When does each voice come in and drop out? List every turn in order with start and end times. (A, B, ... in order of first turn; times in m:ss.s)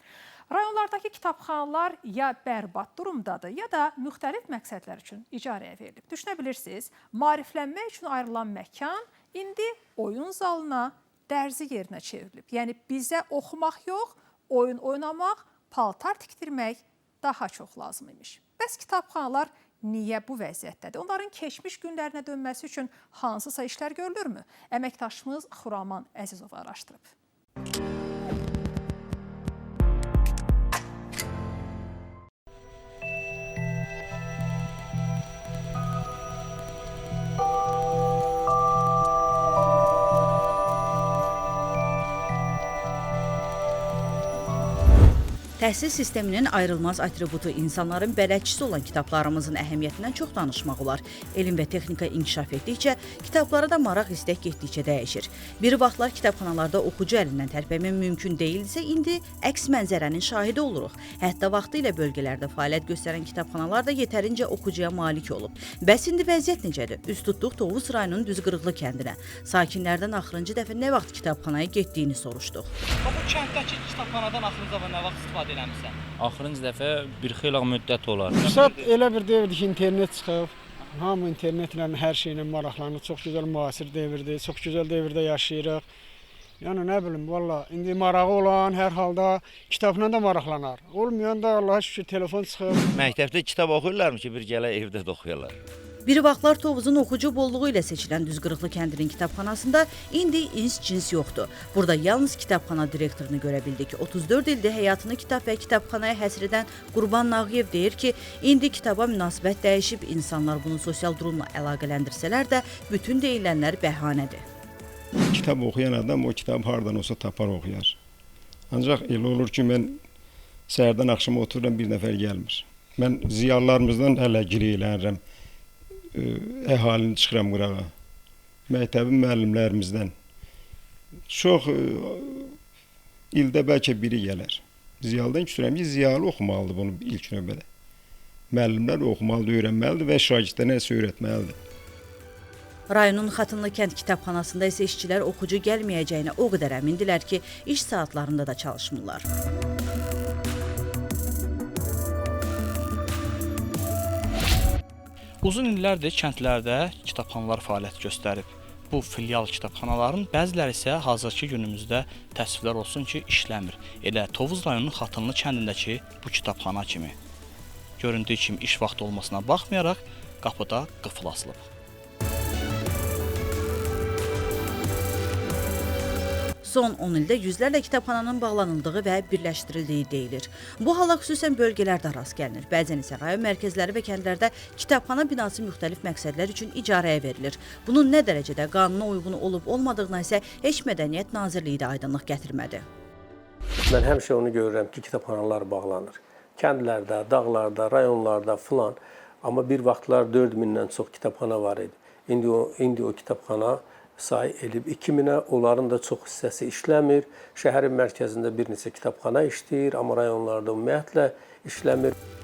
0:00.5-0:27.1 A
0:45.6-1:12.7 B
1:16.2-1:18.8 C
1:18.4-1:25.8 D
1:26.6-1:32.8 D
1:32.9-1:35.5 E
1:36.0-1:54.4 B
1:55.3-1:58.0 F
1:58.7-2:00.0 F
2:00.7-2:05.2 F
2:06.1-2:07.9 F
2:08.7-2:10.1 F
2:11.3-2:12.5 F
2:13.3-2:17.6 F
2:18.5-2:21.6 F
2:22.9-2:29.2 B
2:35.4-2:47.1 G
2:48.0-2:51.6 G
2:56.6-3:12.8 B
3:13.9-3:32.1 H